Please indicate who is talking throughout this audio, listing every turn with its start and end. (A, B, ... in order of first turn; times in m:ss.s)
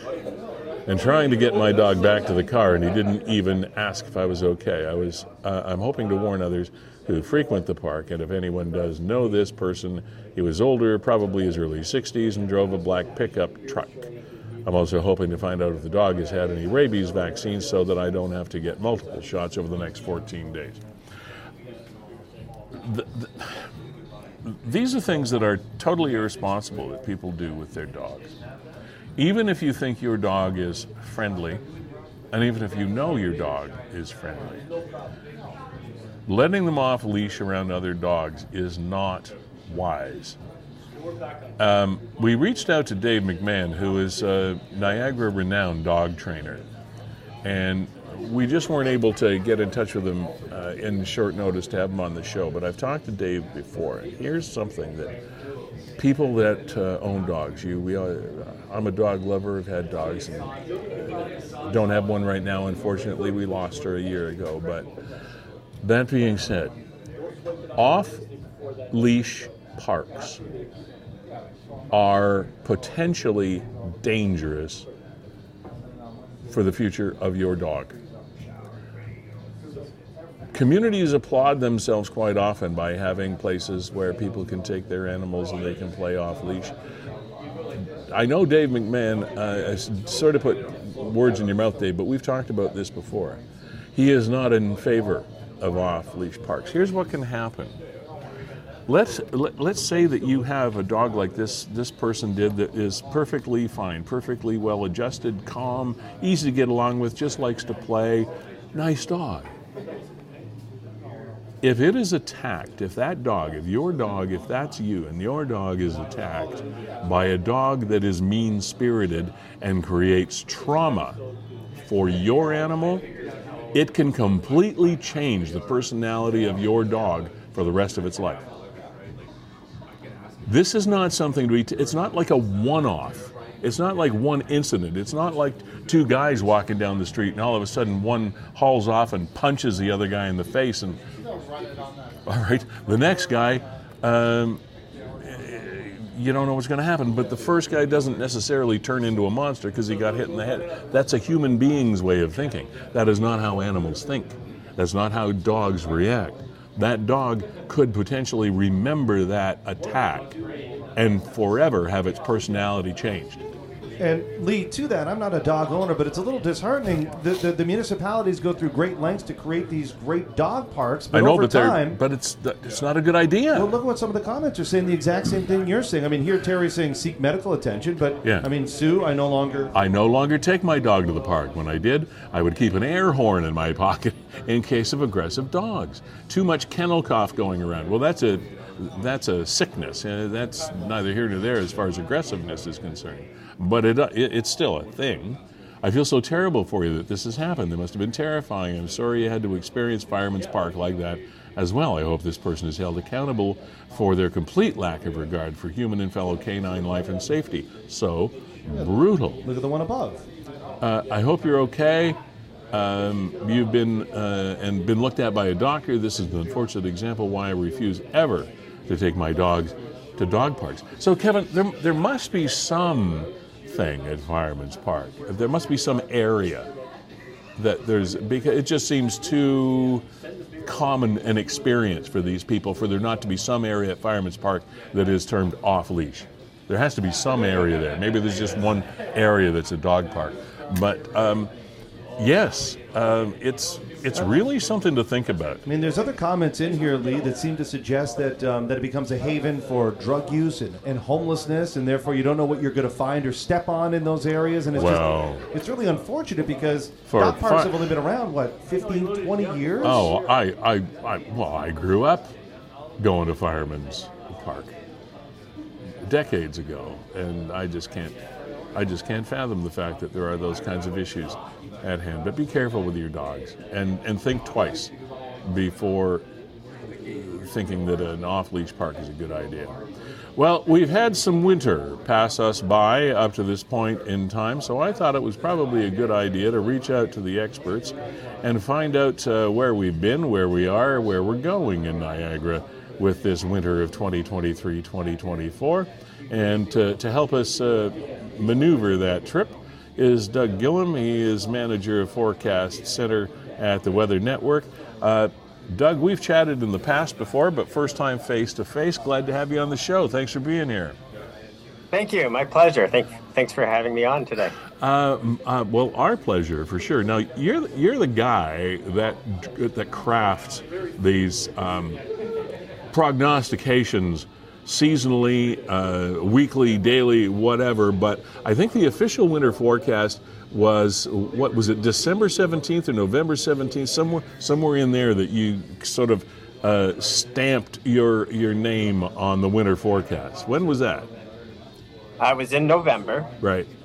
0:00.9-0:14.1 A
0:14.6-0:20.8 A
0:22.8-0:23.6 A
0:24.4-0:28.3 A
0:29.2-0:31.6 A
0:32.3-0:34.6 A
0:36.3-0:40.4 A
0:41.6-0:46.7 A
0:47.4-0:55.1 A
0:56.0-1:00.5 A
1:01.0-1:04.9 A
1:05.8-1:06.7 A
1:07.8-1:08.2 A
1:08.9-1:10.4 A
1:11.9-1:14.9 A
1:16.5-1:17.9 A
1:20.5-1:26.7 A
1:28.1-1:33.4 A
1:33.9-1:37.8 A
1:38.9-1:49.5 A
1:51.6-2:01.2 A
2:01.8-2:03.0 A
2:03.7-2:08.4 A
2:10.4-2:21.0 A
2:22.2-2:24.6 A
2:25.2-2:40.3 A
2:41.0-2:43.4 A
2:44.0-2:52.0 B
2:51.1-2:53.7 A
2:53.5-2:59.7 B
2:58.2-2:58.5 A
2:59.7-3:29.4 A
3:29.4-3:30.2 B
3:30.8-3:32.2 A
3:32.7-3:46.7 A
3:47.6-3:50.0 A
3:50.6-4:01.5 A
4:02.2-4:05.6 A
4:05.6-4:20.1 B
4:14.7-4:15.4 A
4:17.1-4:17.9 A
4:19.8-4:22.3 A
4:23.0-4:24.7 A
4:26.0-4:28.2 A
4:28.7-4:34.9 A
4:35.4-4:36.2 A
4:37.0-4:39.7 A
4:40.4-5:11.0 A
5:11.9-5:14.6 C
5:14.8-5:22.0 A
5:22.9-5:41.1 A
5:42.2-5:43.3 C
5:43.4-5:43.7 A